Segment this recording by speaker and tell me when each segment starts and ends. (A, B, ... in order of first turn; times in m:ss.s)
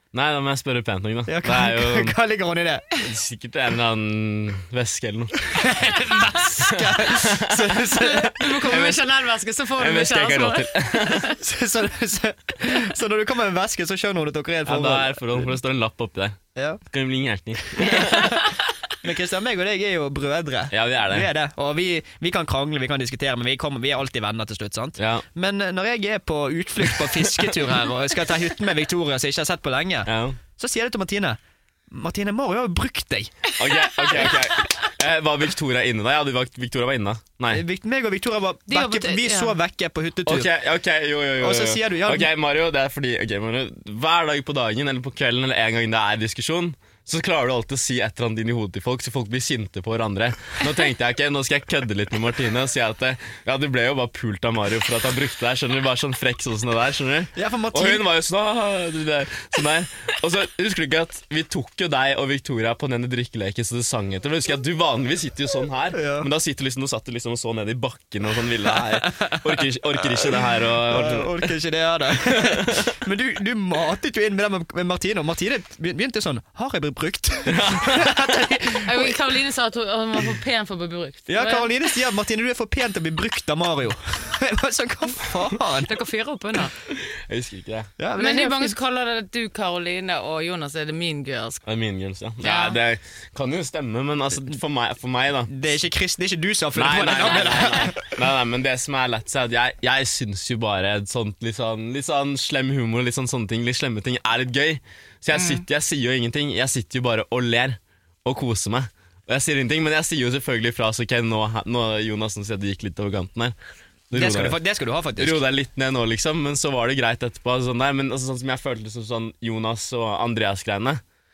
0:00.1-0:02.2 A
0:01.3-0:02.9 B
0:03.0-0:05.5 A
0:05.4-0:08.4 B
0:05.9-0:06.8 C
0:06.8-0:09.1 A
0:08.0-0:11.3 C
0:09.8-0:11.3 A
0:11.3-0:15.5 B
0:14.7-0:18.4 A
0:16.6-0:16.8 B
0:17.9-0:18.5 B
0:18.0-0:18.4 C
0:19.0-0:31.4 B
0:20.7-0:21.3 A
0:25.0-0:25.2 A
0:30.1-0:30.4 A
0:31.9-0:33.3 B
0:33.6-0:37.6 A
0:33.8-0:34.7 C
0:37.5-0:40.5 B
0:38.7-0:39.6 C
0:40.3-1:11.5 A
0:41.4-0:42.3 B
0:57.4-0:58.0 B
1:05.9-1:06.3 B
1:08.8-1:19.2 B
1:12.3-1:12.9 A
1:17.5-1:18.5 A
1:18.8-1:21.7 C
1:21.3-1:26.0 B
1:25.9-1:26.7 C
1:26.9-1:27.9 A
1:28.0-1:28.8 B
1:28.2-1:31.6 C
1:31.7-1:35.5 A
1:32.4-1:32.8 C
1:35.5-1:38.0 B
1:36.8-1:53.6 A
1:45.3-1:45.6 C
1:54.1-1:54.6 A
1:54.1-1:55.4 B
1:55.2-2:01.0 A